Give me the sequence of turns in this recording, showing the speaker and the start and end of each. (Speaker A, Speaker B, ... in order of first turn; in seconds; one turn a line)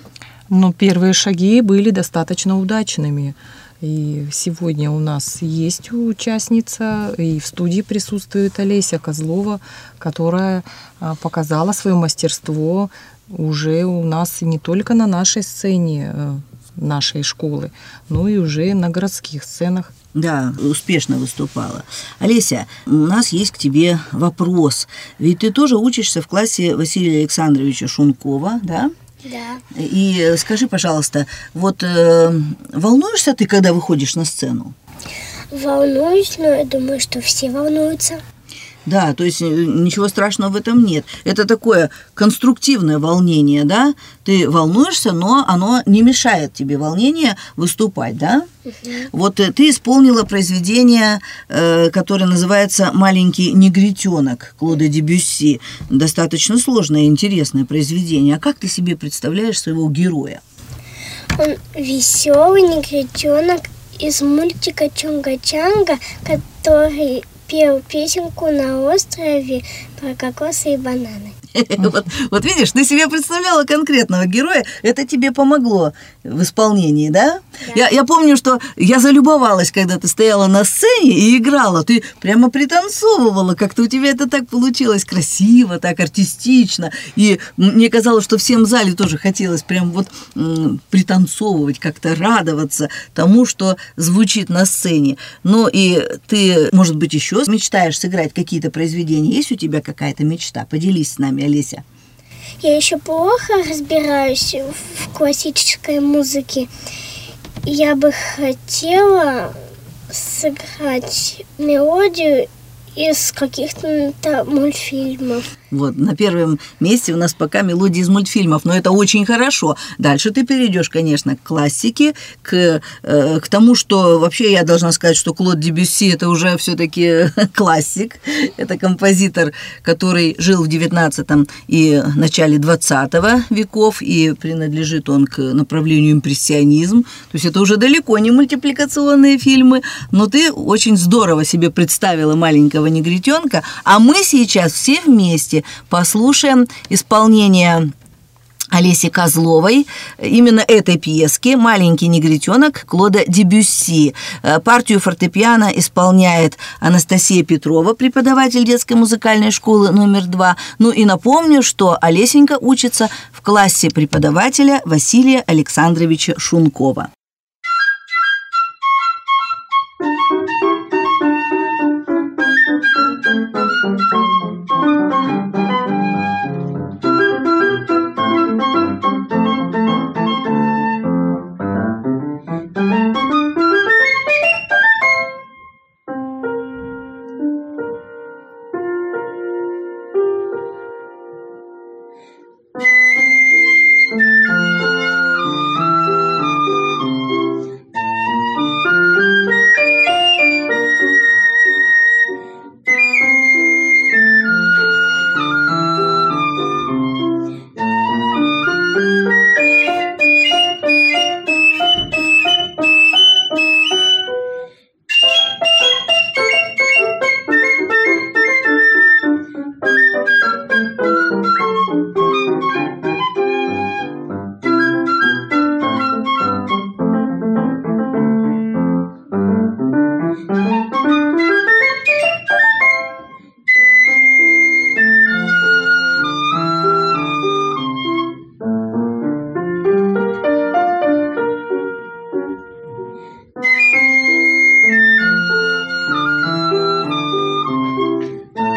Speaker A: 0.5-19.9
Speaker B: 20.1-28.9
Speaker C: 29.2-29.6
Speaker B: 29.7-34.7
Speaker C: 35.5-38.2
Speaker B: 38.8-48.5
Speaker C: 48.8-49.1
Speaker B: 49.1-60.4
Speaker C: 61.4-71.3
Speaker B: 71.5-101.8
Speaker C: 102.6-106.7
Speaker C: 107.6-109.5
Speaker C: 110.1-115.5
Speaker B: 115.7-147.9
Speaker B: 148.7-167.1